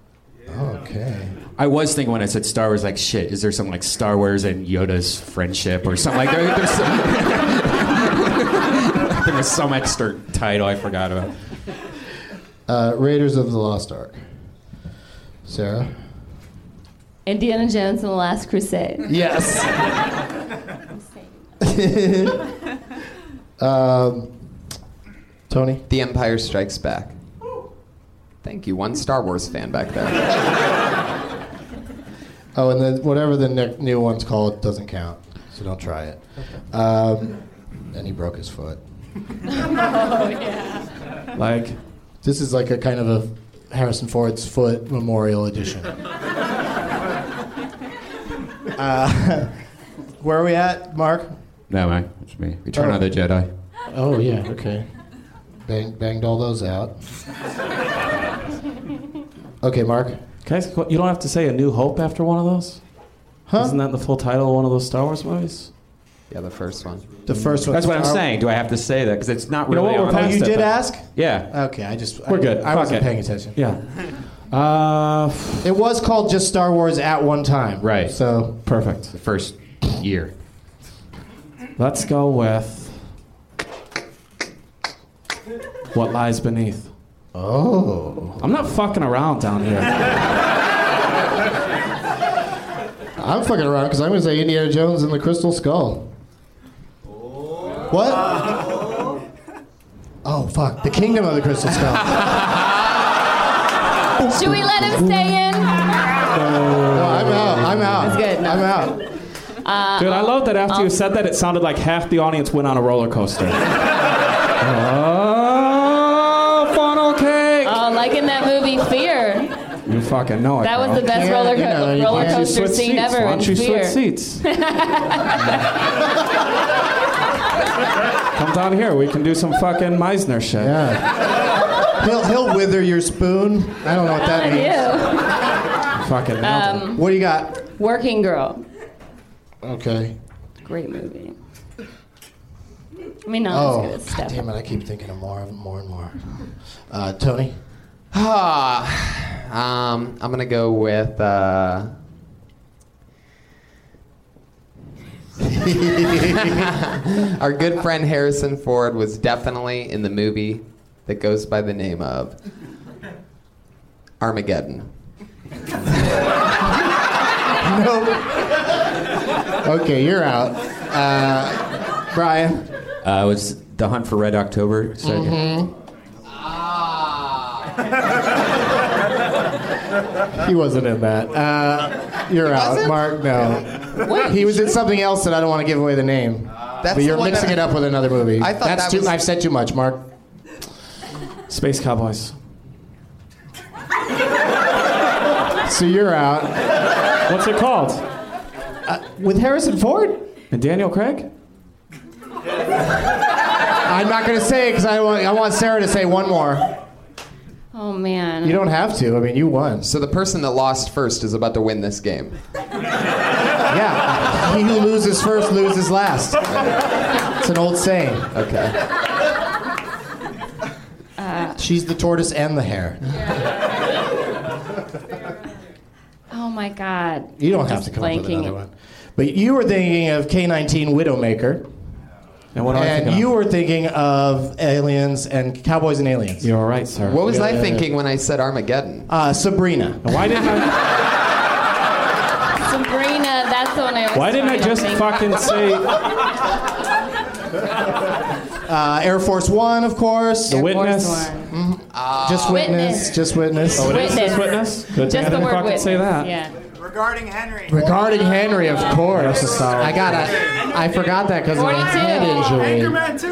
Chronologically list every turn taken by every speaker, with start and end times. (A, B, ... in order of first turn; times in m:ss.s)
0:00.5-0:01.4 A
0:01.6-0:11.3 B
0:12.7-0:14.2 A
0:15.4-0:15.9 A
0:17.2-0:19.1 C
0:19.1-0:19.8 A
0:21.6-0:22.5 A
0:23.6-0:24.3 A
0:25.5-0:25.8 A
0:25.9-0:27.1 D
0:28.4-0:30.4 D
0:32.5-0:36.2 A
0:36.7-0:37.4 A
0:37.9-0:38.8 A
0:39.7-0:40.8 C
0:41.3-0:41.8 E
0:42.2-0:46.0 A
0:48.7-0:49.6 A
0:50.2-0:51.3 A
0:51.7-0:53.5 B
0:52.7-0:53.0 A
0:53.9-0:54.9 A
0:55.6-0:56.9 A
0:59.6-1:00.2 A
1:00.4-1:02.8 E
1:03.5-1:03.8 A
1:03.5-1:05.7 E
1:06.3-1:07.1 D
1:07.2-1:08.2 A
1:07.7-1:11.5 B
1:09.7-1:10.8 E
1:10.1-1:13.6 A
1:12.2-1:13.8 E
1:14.4-1:15.7 E
1:15.6-1:18.6 A
1:17.8-1:18.1 B
1:18.6-1:19.1 E
1:19.1-1:20.3 B
1:21.8-1:23.0 E
1:25.9-1:26.9 E
1:27.3-1:28.4 A
1:28.4-1:30.2 E
1:33.2-1:36.1 A
1:37.9-1:38.5 A
1:40.2-1:42.5 A
1:44.2-1:46.0 C
1:44.4-1:44.8 A
1:46.3-1:48.1 E
1:46.9-1:49.0 A
1:48.0-1:48.9 C
1:49.6-1:50.9 C
1:50.0-1:53.7 E
1:54.6-1:57.8 E
1:57.6-1:59.5 C
1:59.8-2:01.1 E
2:00.6-2:05.6 C
2:01.0-2:02.6 A
2:02.0-2:04.4 E
2:08.3-2:10.8 E
2:10.6-2:15.0 A
2:14.2-2:15.4 C
2:15.9-2:16.9 E
2:16.4-2:17.0 C
2:16.9-2:17.6 A
2:17.7-2:18.6 C
2:19.6-2:20.2 A
2:20.6-2:21.3 C
2:23.2-2:24.4 C
2:23.5-2:26.3 A
2:26.9-2:27.6 A
2:28.1-2:31.9 D
2:35.4-2:36.7 A
2:36.2-2:42.4 D
2:44.2-2:44.9 D
2:47.6-2:48.7 A
2:49.6-2:52.7 A
2:53.0-2:55.4 B
2:55.0-2:55.7 A
2:56.6-2:57.4 D
3:00.3-3:10.1 A
3:02.5-3:03.1 D
3:04.1-3:04.4 C
3:06.8-3:07.7 D
3:08.4-3:09.2 D
3:11.5-3:12.3 E
3:15.6-3:16.7 A
3:17.2-3:18.0 E
3:18.8-3:20.3 A
3:20.5-3:21.3 E
3:23.8-3:26.7 A
3:27.7-3:28.6 C
3:28.4-3:29.9 A
3:29.8-3:32.4 D
3:33.7-3:36.7 A
3:37.4-3:38.3 A
3:38.3-3:38.8 D
3:41.2-3:41.6 C
3:41.6-3:43.1 A
3:46.3-3:48.6 C
3:47.4-3:51.6 A
3:52.5-3:53.3 E
3:52.7-3:56.5 A
3:56.4-3:57.2 E
3:57.0-3:59.1 D
3:57.1-3:57.9 A
3:59.1-4:00.3 A
4:00.0-4:00.8 E
4:02.6-4:05.4 C
4:04.1-4:06.0 E
4:08.6-4:10.6 A
4:10.5-4:11.4 E
4:10.5-4:11.5 C
4:11.5-4:14.3 A
4:11.9-4:12.7 D
4:12.5-4:13.2 C
4:13.7-4:16.3 E
4:13.8-4:16.5 C
4:17.6-4:23.1 A
4:19.1-4:20.3 E
4:21.5-4:22.6 C